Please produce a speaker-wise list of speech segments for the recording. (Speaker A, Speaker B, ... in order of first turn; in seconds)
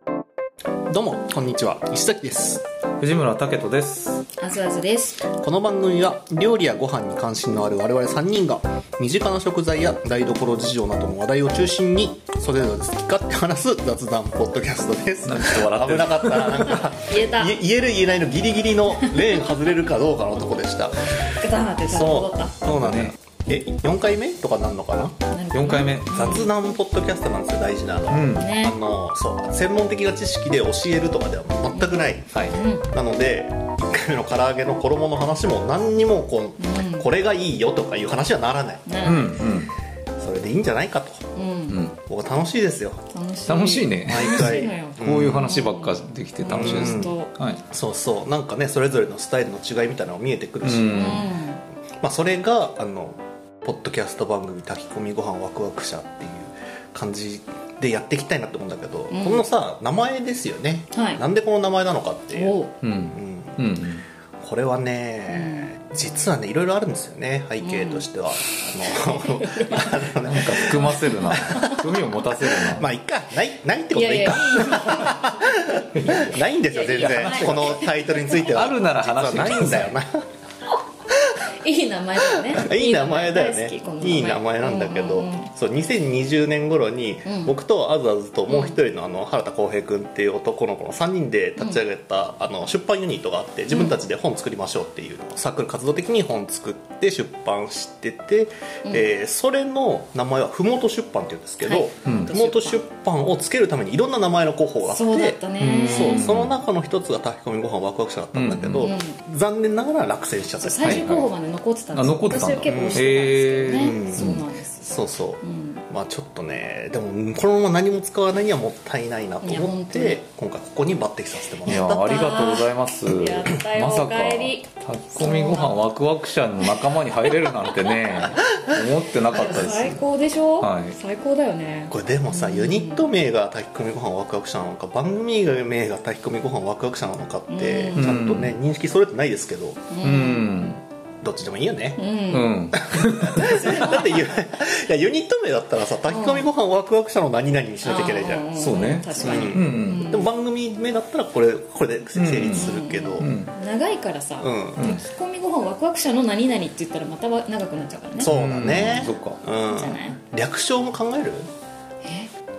Speaker A: 0.9-2.6, 5.3-25.2, 26.1-39.0, 40.2-41.2, 42.0-43.0, 44.0-45.5, 46.5-47.1, 47.7-51.3, 52.0-62.6, 63.1-63.6, 64.4-80.2, 82.5-111.3, 112.7-113.0, 113.7-122.4, 131.9-139.8, 141.2-142.0, 142.7-148.5, 149.2-153.3, 154.4-154.8, 158.2-161.5
Speaker B: 3.0-4.2, 15.2-16.9, 22.6-23.2, 25.5-26.5, 28.1-28.5, 39.0-39.7, 41.7-42.0, 43.5-47.6, 50.6-51.3, 62.8-64.1, 70.2-72.9, 75.9-77.8, 78.4-80.0, 102.0-102.3, 105.6-106.6, 108.3-108.9, 110.8-111.3, 111.9-114.4, 121.7-130.0, 130.6-130.9, 137.9-138.5, 140.0-140.8, 142.3-143.7, 148.5-150.2, 152.1-153.5, 154.8-155.0, 158.2-159.4
Speaker C: 4.4-5.2, 16.6-17.6, 18.9-19.3, 21.4-22.6, 25.3-26.5, 28.4-28.8, 31.7-32.9, 36.6-37.1, 38.9-39.4, 41.3-41.8, 43.1-47.3, 50.9-51.6, 59.1-59.5, 60.9-61.2, 62.3-62.8, 65.3-65.8, 67.6-68.1, 68.6-71.8, 73.9-75.6, 76.6-78.7, 81.6-85.5, 87.2-87.6, 88.5-88.8, 93.7-94.0, 101.6-102.8, 104.9-106.3, 108.8-109.2, 110.6-115.8, 119.4-120.2, 121.7-125.9, 127.5-128.2, 129.3-133.1, 137.5-138.2, 139.9-140.5, 141.9-142.6, 143.4-144.4, 146.1-146.5, 147.8-150.3, 152.5-158.3, 159.7-160.2, 162.0-162.3